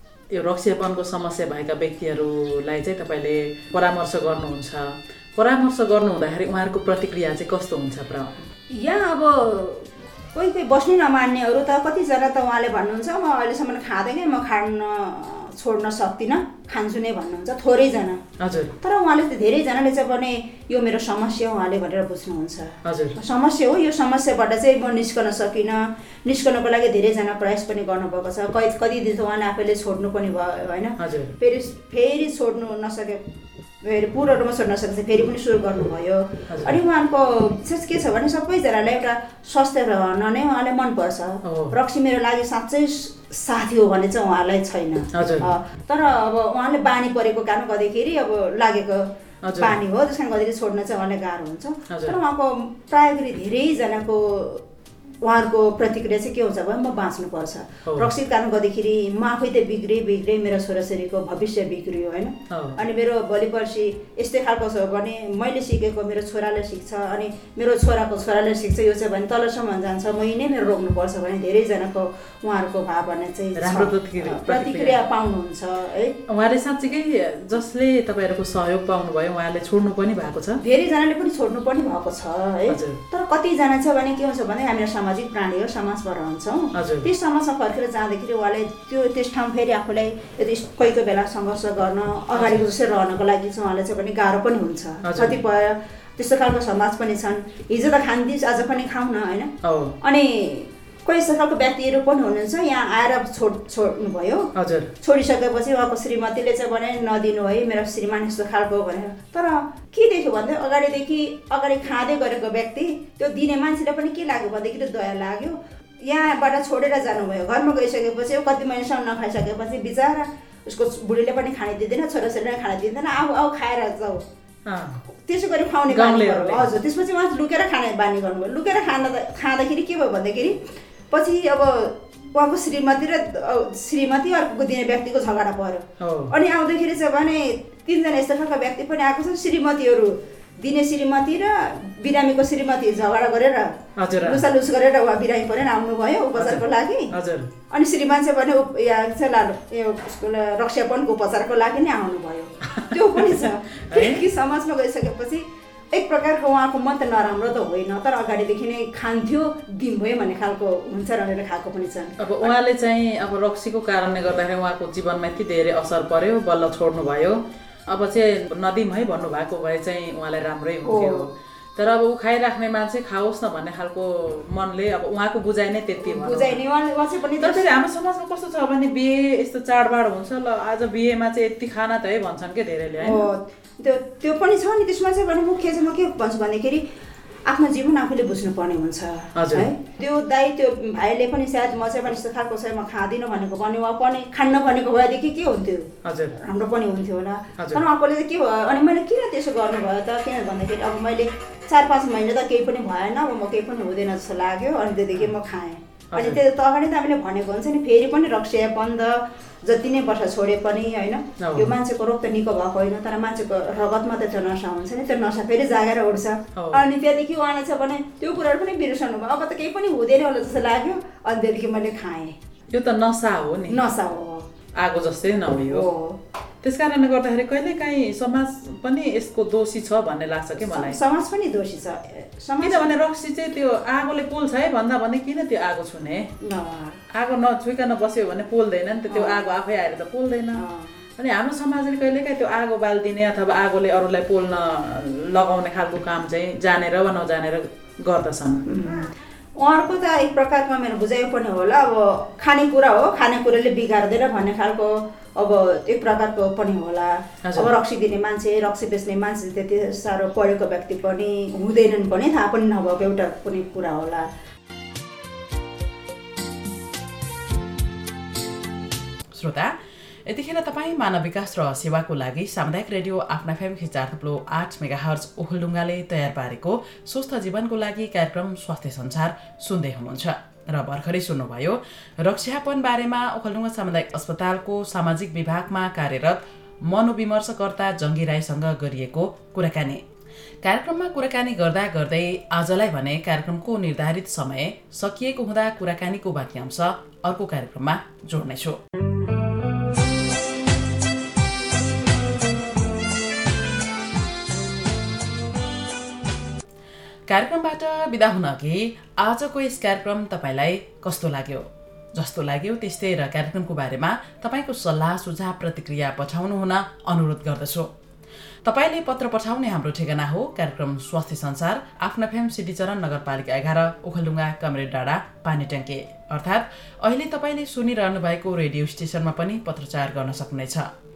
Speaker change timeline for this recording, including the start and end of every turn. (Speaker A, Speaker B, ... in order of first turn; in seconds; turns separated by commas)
Speaker A: 0.3-8.4, Speaker B: 8.7-18.2, Speaker A: 18.4-18.7, Speaker B: 18.8-33.2, Speaker A: 22.8-23.1, Speaker A: 31.0-31.3, Speaker B: 33.8-54.6, Speaker A: 36.5-36.8, Speaker A: 41.4-41.7, Speaker A: 45.1-45.5, Speaker A: 49.4-49.8, Speaker A: 51.9-52.1, Speaker B: 55.2-76.2, Speaker A: 62.5-62.8, Speaker A: 73.5-75.0, Speaker A: 76.3-80.6, Speaker B: 80.6-104.5, Speaker A: 82.7-83.0, Speaker A: 86.7-87.1, Speaker A: 92.3-92.7, Speaker A: 95.0-95.4, Speaker A: 99.6-100.0, Speaker A: 104.5-104.9, Speaker B: 105.0-124.2, Speaker A: 124.7-125.0, Speaker B: 125.2-147.1, Speaker A: 125.9-126.7, Speaker A: 136.0-136.3, Speaker A: 144.0-144.4, Speaker A: 146.4-147.5, Speaker B: 147.7-162.5, Speaker A: 152.7-154.2, Speaker A: 162.2-176.6, Speaker B: 170.8-171.3, Speaker B: 176.0-177.7, Speaker A: 177.4-183.2, Speaker B: 183.0-186.8, Speaker B: 187.5-222.3, Speaker A: 189.3-189.7, Speaker A: 196.0-196.3, Speaker A: 197.6-197.8, Speaker A: 206.1-206.4, Speaker A: 211.4-211.7, Speaker A: 216.6-216.8, Speaker A: 222.7-223.8, Speaker B: 223.7-224.5, Speaker A: 224.8-225.9, Speaker B: 225.5-226.2, Speaker A: 226.6-231.0, Speaker B: 230.6-232.9, Speaker A: 232.6-236.3, Speaker B: 236.4-237.0, Speaker A: 237.1-240.6, Speaker B: 239.1-239.4, Speaker B: 240.5-241.1, Speaker A: 241.2-248.7, Speaker B: 248.7-264.3, Speaker A: 257.4-257.7, Speaker C: 269.3-269.7, Speaker C: 270.2-290.0, Speaker C: 290.6-298.8, Speaker C: 307.3-317.9, Speaker C: 318.6-330.9